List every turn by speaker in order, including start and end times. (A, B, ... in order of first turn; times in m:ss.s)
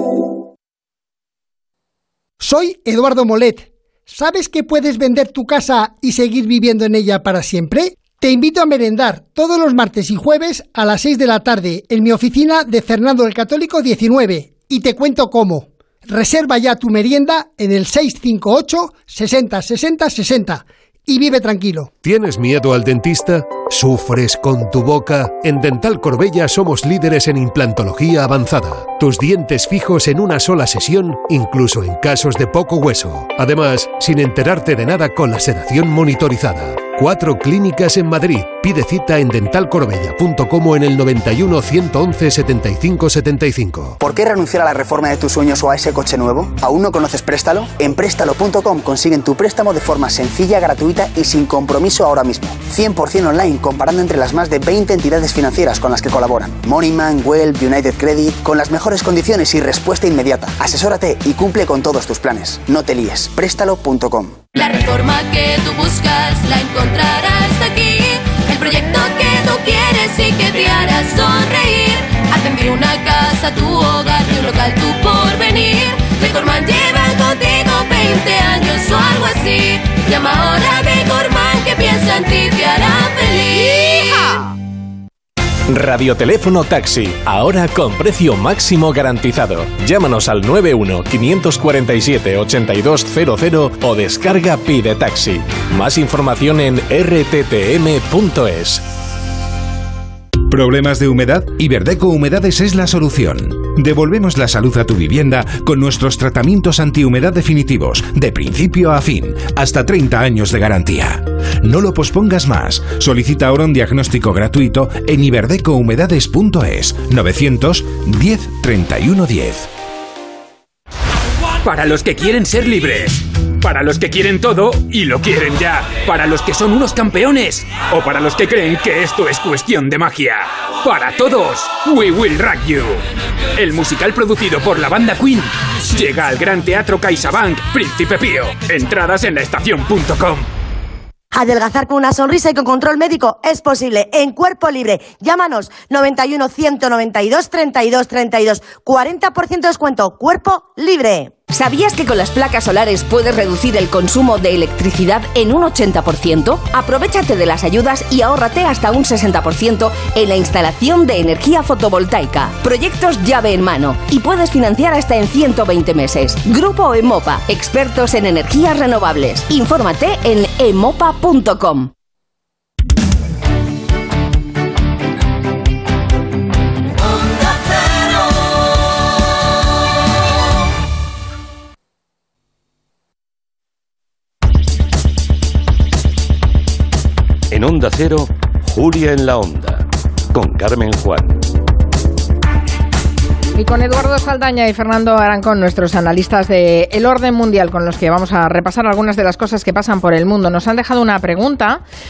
0:02.4-0:21.9 A
0:22.0-0:44.0 B
0:44.0-1:04.4 C
1:04.5-1:24.3 D
1:25.7-1:38.8 E
1:40.5-1:59.7 F
2:01.6-2:13.0 G
2:13.6-2:20.5 G
2:21.3-2:31.3 H
2:31.5-2:51.9 I
3:07.5-3:11.4 J
3:13.6-3:21.8 K